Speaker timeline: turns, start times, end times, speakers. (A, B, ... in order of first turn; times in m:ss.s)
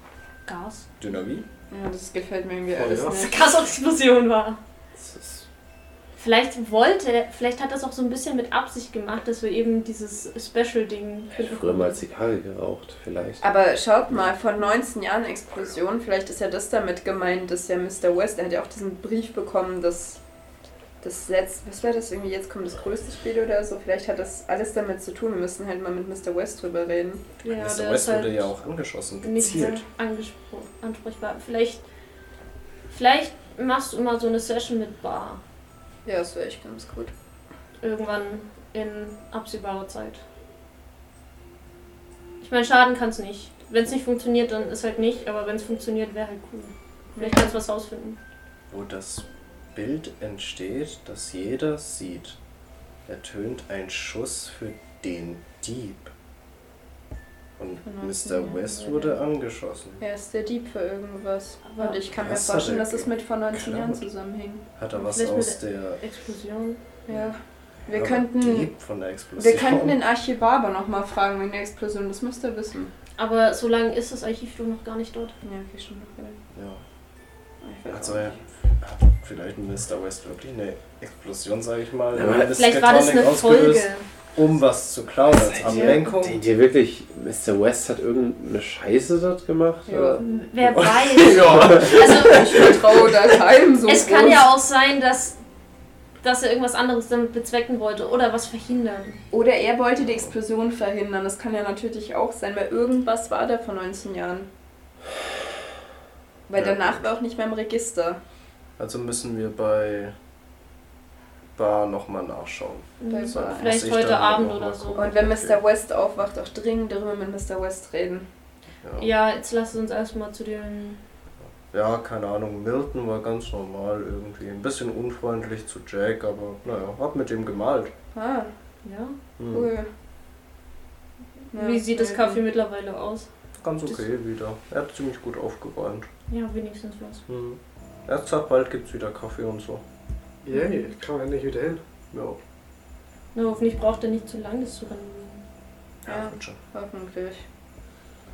0:00.5-0:00.9 A
0:01.0-0:01.5 B
0:01.7-0:03.5 C
0:02.8-0:03.3 D
0:03.2-0:04.6 A
0:05.0-0:05.4 E
0:06.2-0:12.0 A
0:11.4-0:13.4 E
0:13.4-0:20.2 C
0:21.0-0:27.2 C
0:27.4-0:28.5 A
0:27.5-0:29.8 B
0:29.2-0:31.8 A
0:32.9-0:35.4 A
0:36.0-0:37.1 C
0:37.8-0:40.2 A
0:42.4-0:48.2 A
0:47.2-0:47.5 C
0:48.7-0:52.4 B
0:53.1-0:56.1 B
0:57.6-1:00.0 B
0:57.9-0:59.1 C
1:00.0-1:04.6 C
1:01.7-1:02.0 A
1:02.2-1:04.0 B
1:04.8-1:06.0 B
1:05.0-1:06.8 A
1:07.1-1:08.7 C
1:07.9-1:10.0 B
1:09.4-1:12.9 C
1:13.2-1:15.3 A
1:15.4-1:16.4 C
1:16.5-1:16.8 B
1:17.6-1:18.4 C
1:17.9-1:26.4 B
1:22.2-1:22.5 E
1:22.4-1:24.0 A
1:25.5-1:30.2 E
1:29.9-1:30.2 C
1:30.2-1:32.6 A
1:30.7-1:32.7 B
1:31.8-1:34.5 C
1:33.9-1:35.4 A
1:36.2-1:39.2 A
1:39.3-1:44.5 C
1:46.5-1:48.2 C
1:46.6-1:47.0 B
1:48.8-1:50.1 B
1:51.6-1:55.6 B
1:53.0-1:55.3 A
1:53.1-1:53.7 C
1:55.0-1:58.3 C
1:58.8-1:59.1 B
1:59.0-2:01.0 A
2:01.7-2:07.9 B
2:08.1-2:08.5 C
2:08.8-2:09.2 A
2:09.4-2:09.7 B
2:09.5-2:09.9 C
2:11.5-2:12.4 C
2:11.5-2:13.3 A
2:13.6-2:16.1 B
2:16.3-2:17.2 A
2:17.3-2:19.8 B
2:20.4-2:21.8 D
2:20.5-2:20.9 A
2:22.1-2:22.4 B
2:23.3-2:25.4 A
2:26.0-2:26.6 B
2:26.1-2:27.4 C